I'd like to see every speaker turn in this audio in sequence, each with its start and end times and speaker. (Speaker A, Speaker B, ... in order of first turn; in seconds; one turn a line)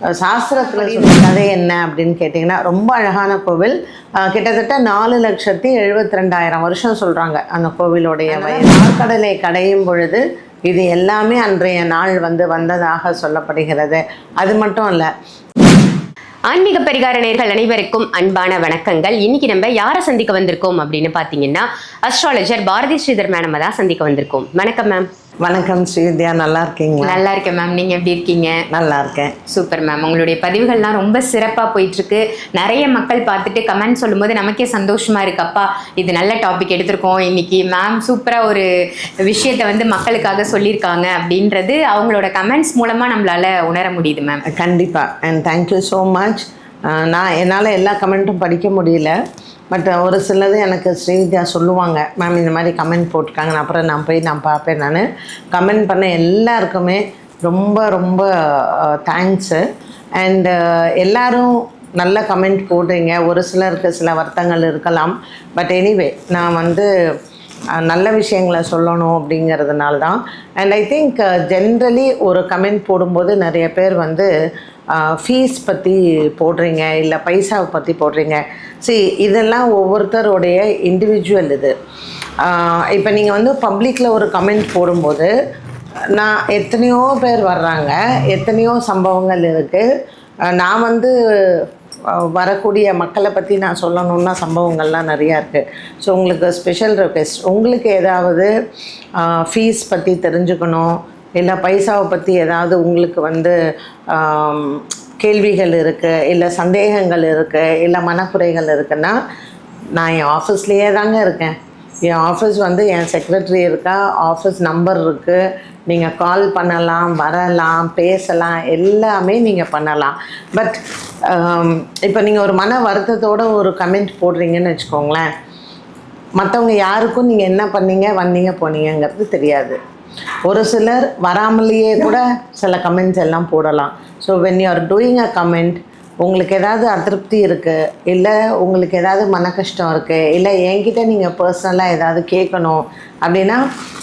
Speaker A: 0.1-15.1
Speaker B: 0.7-1.0
Speaker B: 8.3-8.8
Speaker B: 16.5-25.1
Speaker A: 25.4-27.2
Speaker B: 27.0-28.6
Speaker A: 28.7-29.4
Speaker B: 29.5-38.7
Speaker B: 39.2-44.4
Speaker A: 44.5-49.1
Speaker A: 49.7-59.6
Speaker A: 60.2-66.9
Speaker A: 67.8-74.3
Speaker A: 74.9-81.7
Speaker A: 82.4-85.3
Speaker A: 86.1-89.9
Speaker A: 90.5-98.5
Speaker A: 99.2-103.5
Speaker A: 104.1-109.2
Speaker A: 110.0-111.5
Speaker A: 112.1-125.3
Speaker A: 126.4-129.8
Speaker A: 130.5-143.6